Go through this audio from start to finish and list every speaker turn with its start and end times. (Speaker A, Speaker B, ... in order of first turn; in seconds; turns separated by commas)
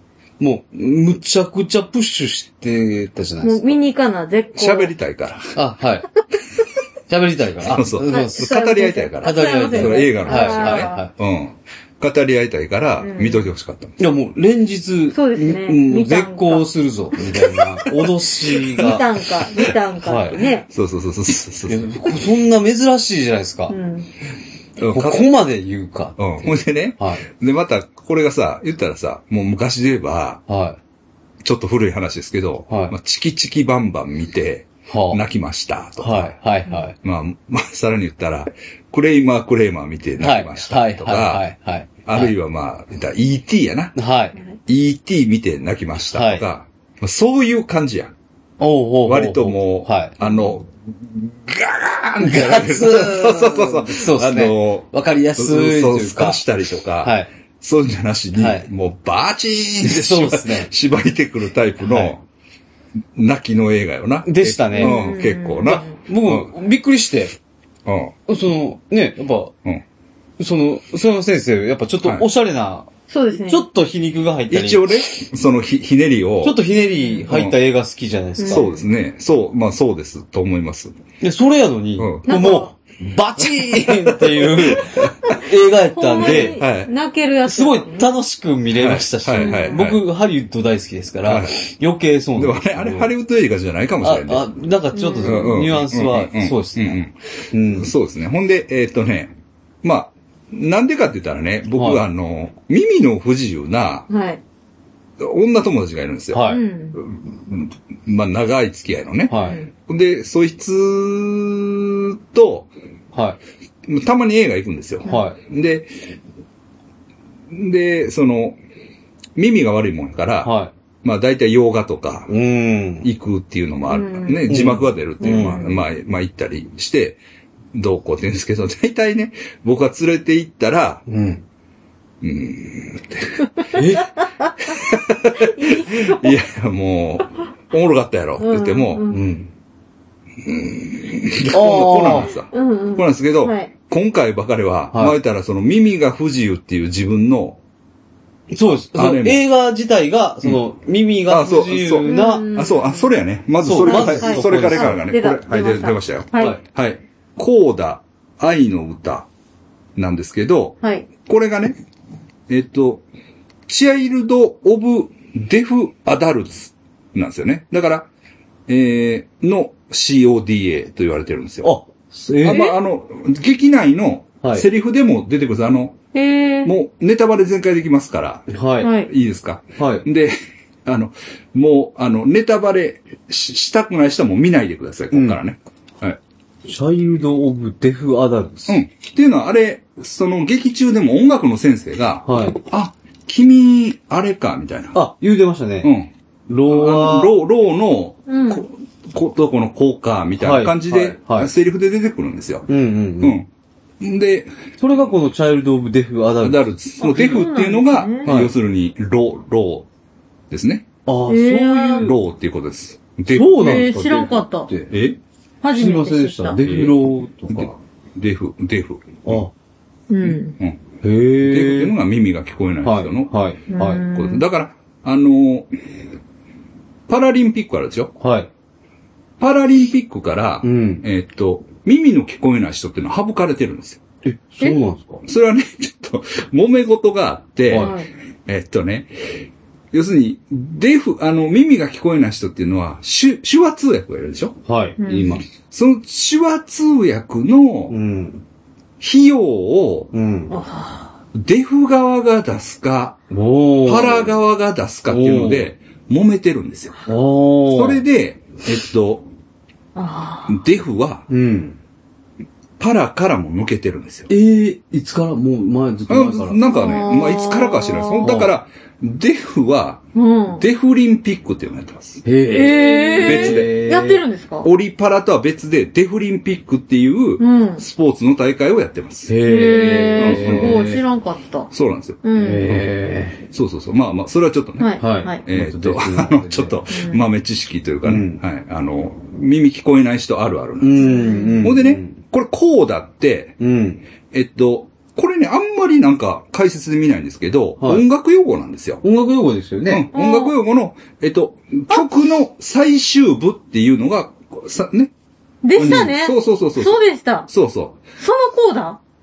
Speaker A: 0.4-3.8, Speaker B: 3.4-4.9, Speaker C: 4.5-5.5, Speaker A: 5.5-6.1, Speaker A: 7.1-8.5, Speaker C: 7.7-13.9, Speaker B: 8.1-11.1, Speaker A: 9.2-11.1, Speaker B: 13.0-13.4, Speaker A: 14.0-19.0, Speaker B: 15.1-16.7, Speaker B: 18.7-20.6, Speaker A: 20.0-20.4, Speaker C: 20.7-22.1, Speaker A: 21.7-23.8, Speaker B: 23.7-24.1, Speaker C: 24.8-25.3, Speaker A: 24.9-27.2, Speaker C: 26.2-30.4, Speaker A: 30.5-30.8, Speaker C: 31.4-36.3, Speaker A: 32.7-32.9, Speaker A: 34.9-35.2, Speaker A: 36.0-36.9, Speaker C: 37.0-41.4, Speaker A: 40.2-42.3, Speaker C: 42.0-44.0, Speaker A: 43.9-44.4, Speaker C: 44.6-48.1, Speaker A: 46.1-46.4, Speaker A: 48.6-50.2, Speaker C: 49.0-62.2, Speaker A: 52.2-56.4, Speaker A: 57.0-57.3, Speaker A: 58.4-58.7, Speaker A: 59.8-60.7, Speaker A: 61.8-62.1, Speaker C: 63.1-66.5, Speaker A: 64.2-65.1, Speaker B: 64.8-65.9, Speaker A: 65.9-67.3, Speaker C: 67.8-68.1, Speaker A: 68.3-69.5, Speaker A: 70.4-75.0, Speaker B: 73.1-73.7, Speaker C: 74.5-76.6, Speaker A: 76.4-78.7, Speaker C: 77.3-77.5, Speaker B: 78.4-78.8, Speaker C: 78.5-81.0, Speaker A: 81.2-86.6, Speaker C: 82.0-82.3, Speaker B: 82.3-82.7, Speaker C: 83.4-85.1, Speaker B: 85.9-88.1, Speaker C: 86.2-86.9, Speaker A: 87.5-93.1, Speaker C: 88.7-90.0, Speaker B: 89.3-89.8, Speaker C: 91.2-91.5, Speaker C: 92.3-94.4, Speaker A: 94.0-97.0, Speaker B: 94.9-95.6, Speaker C: 95.2-97.1, Speaker A: 97.5-97.9, Speaker C: 97.7-104.1, Speaker A: 101.7-102.0, Speaker B: 104.1-104.4, Speaker C: 105.2-112.7, Speaker A: 106.3-106.6, Speaker B: 106.5-107.0, Speaker A: 109.3-109.6, Speaker B: 109.4-109.7, Speaker A: 113.1-113.4, Speaker C: 113.8-115.9, Speaker A: 115.0-115.3, Speaker C: 117.5-118.6, Speaker C: 119.3-122.3, Speaker A: 120.4-120.7, Speaker A: 122.3-123.1, Speaker C: 123.0-127.2, Speaker B: 123.9-124.5, Speaker A: 124.5-125.7, Speaker B: 125.2-125.8, Speaker C: 127.7-131.0, Speaker A: 131.1-131.4, Speaker C: 132.2-133.5, Speaker A: 133.7-134.1, Speaker C: 134.6-139.1, Speaker B: 135.4-136.4, Speaker B: 138.4-139.2, Speaker A: 139.1-139.5, Speaker C: 140.4-147.6, Speaker A: 141.5-142.3, Speaker B: 142.5-143.7, Speaker A: 144.9-145.2, Speaker A: 148.5-152.5, Speaker C: 148.9-149.4, Speaker C: 151.3-159.3, Speaker B: 152.1-153.1, Speaker A: 153.6-155.0, Speaker B: 153.8-156.6, Speaker A: 156.3-156.6, Speaker C: 159.9-161.8, Speaker B: 160.8-161.1, Speaker C: 162.5-163.0, Speaker C: 163.7-168.1, Speaker C: 168.7-171.7, Speaker A: 171.6-172.7, Speaker C: 172.4-176.0, Speaker B: 172.5-172.8, Speaker A: 174.4-174.7, Speaker B: 176.1-176.7, Speaker C: 176.6-178.5, Speaker A: 178.5-178.9, Speaker B: 178.8-179.1, Speaker C: 179.0-186.2, Speaker A: 179.8-180.1, Speaker A: 185.1-185.4, Speaker A: 186.6-188.8, Speaker C: 188.7-195.0, Speaker A: 192.2-192.6, Speaker A: 194.9-195.9, Speaker C: 195.8-196.1, Speaker A: 196.5-197.3, Speaker C: 196.6-202.7, Speaker B: 198.3-198.6, Speaker A: 200.4-201.5, Speaker A: 202.7-203.4, Speaker C: 203.2-203.5, Speaker C: 204.0-204.6, Speaker A: 204.8-206.7, Speaker C: 206.4-209.9, Speaker B: 207.0-208.3, Speaker A: 208.2-208.5, Speaker C: 210.5-210.8, Speaker A: 211.1-212.1, Speaker B: 211.3-212.1, Speaker C: 212.0-213.7, Speaker A: 213.3-214.9, Speaker B: 213.5-214.7, Speaker C: 214.9-215.2, Speaker B: 215.6-216.6, Speaker A: 215.7-217.7, Speaker C: 216.6-219.4, Speaker A: 219.2-219.5, Speaker B: 220.1-220.6, Speaker A: 221.0-221.9, Speaker C: 221.4-223.3, Speaker A: 222.8-224.0, Speaker B: 223.7-224.4, Speaker C: 224.1-225.9, Speaker C: 227.1-228.1, Speaker A: 228.2-228.5, Speaker C: 229.4-234.0, Speaker A: 230.6-231.0, Speaker A: 234.2-235.2, Speaker C: 235.2-244.6, Speaker A: 237.7-238.0, Speaker B: 237.7-238.1, Speaker A: 244.7-245.4, Speaker B: 245.0-245.4, Speaker C: 245.7-247.9, Speaker A: 247.9-248.4, Speaker C: 249.0-250.1, Speaker A: 250.1-250.6, Speaker B: 250.5-251.1, Speaker C: 251.3-253.2, Speaker A: 253.3-254.3, Speaker C: 253.8-256.9, Speaker A: 255.1-255.7, Speaker A: 257.1-258.0, Speaker C: 257.7-259.3, Speaker B: 259.9-260.6, Speaker C: 260.5-261.3, Speaker A: 261.3-261.8, Speaker C: 262.8-264.3, Speaker A: 264.3-266.6, Speaker C: 266.1-272.2, Speaker B: 266.7-268.4, Speaker A: 268.2-268.5, Speaker B: 270.1-270.6, Speaker A: 272.2-274.2, Speaker B: 272.4-274.7, Speaker C: 273.2-273.8, Speaker C: 274.6-279.3, Speaker B: 277.4-277.8, Speaker A: 279.3-281.0, Speaker B: 279.4-281.7, Speaker C: 280.1-280.8, Speaker C: 281.7-282.8, Speaker B: 282.2-282.8, Speaker A: 282.4-283.4, Speaker C: 283.5-293.6, Speaker B: 284.8-285.4, Speaker A: 285.0-286.8, Speaker B: 286.9-287.2, Speaker A: 288.0-288.4, Speaker A: 290.8-292.2, Speaker B: 291.0-291.7, Speaker A: 293.6-294.0, Speaker C: 294.3-299.0, Speaker A: 297.8-298.0, Speaker A: 299.0-300.1, Speaker C: 299.9-305.1, Speaker B: 300.1-300.5, Speaker B: 305.6-307.5, Speaker C: 305.8-308.0, Speaker A: 305.8-306.1, Speaker B: 308.2-309.0